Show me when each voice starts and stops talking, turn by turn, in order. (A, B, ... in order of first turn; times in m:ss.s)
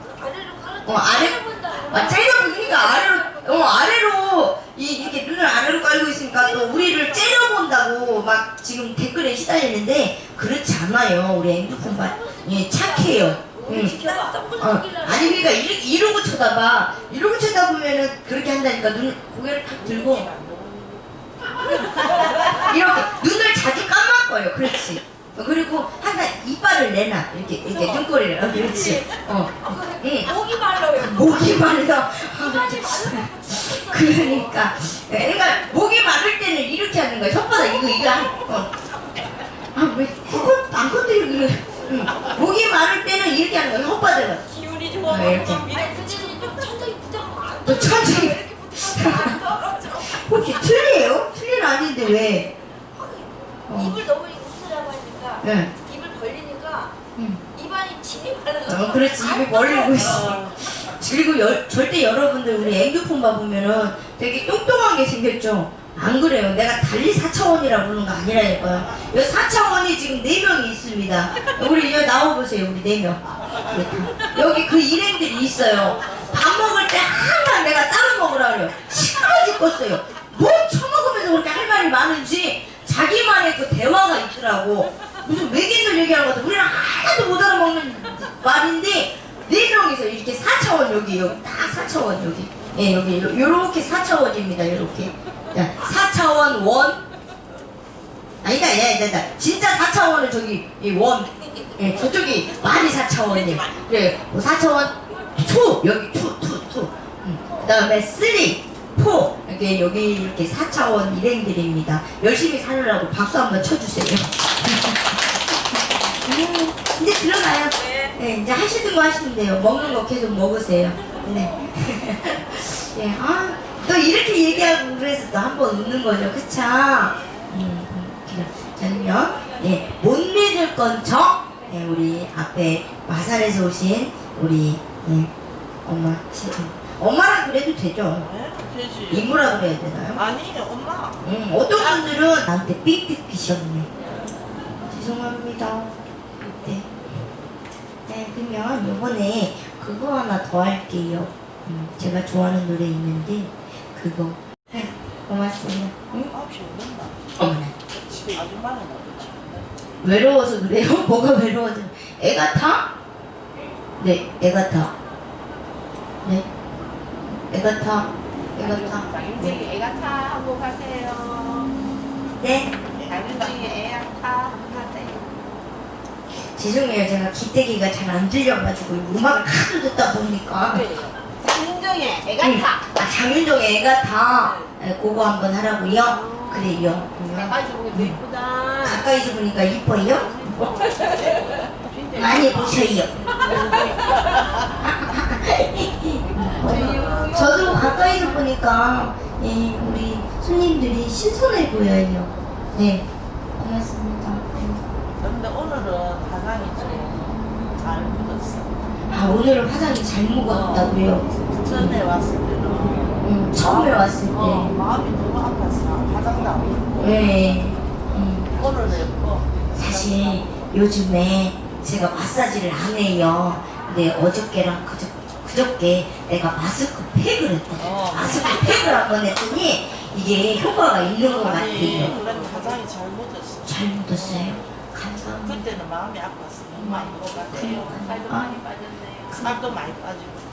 0:00.2-0:03.2 A
0:00.8-0:20.3 B
0:13.4-0:15.3 A
0:21.9-0:38.7 B
0:29.8-0:31.6 A
0:32.4-0:34.3 A
0:39.7-0:44.5 B
0:44.8-0:50.0 A
0:45.0-0:45.7 B
0:47.6-0:52.5 B
0:53.0-0:56.9 A
0:53.7-0:54.0 B
0:55.4-0:55.7 B
0:57.2-0:57.4 B
0:57.5-1:00.1 A
0:58.7-1:37.0 B
1:38.4-1:55.2 B
1:56.2-2:15.3 B
2:15.8-2:18.3 B
2:18.5-2:19.0 C
2:19.1-2:20.2 B
2:20.3-2:21.1 C
2:21.2-2:23.9 B
2:24.9-2:26.0 B
2:26.6-2:26.9 B
2:28.1-2:36.3 B
2:36.4-2:37.2 C
2:37.4-2:37.7 B
2:38.1-2:39.5 C
2:40.0-2:42.9 B
2:44.0-2:44.9 B
2:47.5-2:49.6 B
2:49.6-2:51.4 D
2:52.4-2:52.7 B
2:53.1-2:55.2 D
2:56.5-3:01.0 B
3:01.6-3:02.4 D
3:02.4-3:08.2 B
3:07.8-3:08.6 D
3:08.8-3:10.9 B
3:12.1-3:14.0 B
3:14.8-3:23.1 B
3:23.6-3:24.8 B
3:25.2-3:28.7 C
3:29.1-3:32.1 B
3:31.8-3:33.1 C
3:33.2-3:34.8 B
3:34.7-3:37.0 C
3:37.0-3:38.5 B
3:38.6-3:39.4 C
3:39.7-3:52.2 B
3:52.1-3:53.3 C
3:53.7-3:55.8 B
3:55.7-3:57.4 C
3:56.8-3:58.7 B
3:59.3-3:59.8 B
3:59.7-4:00.4 C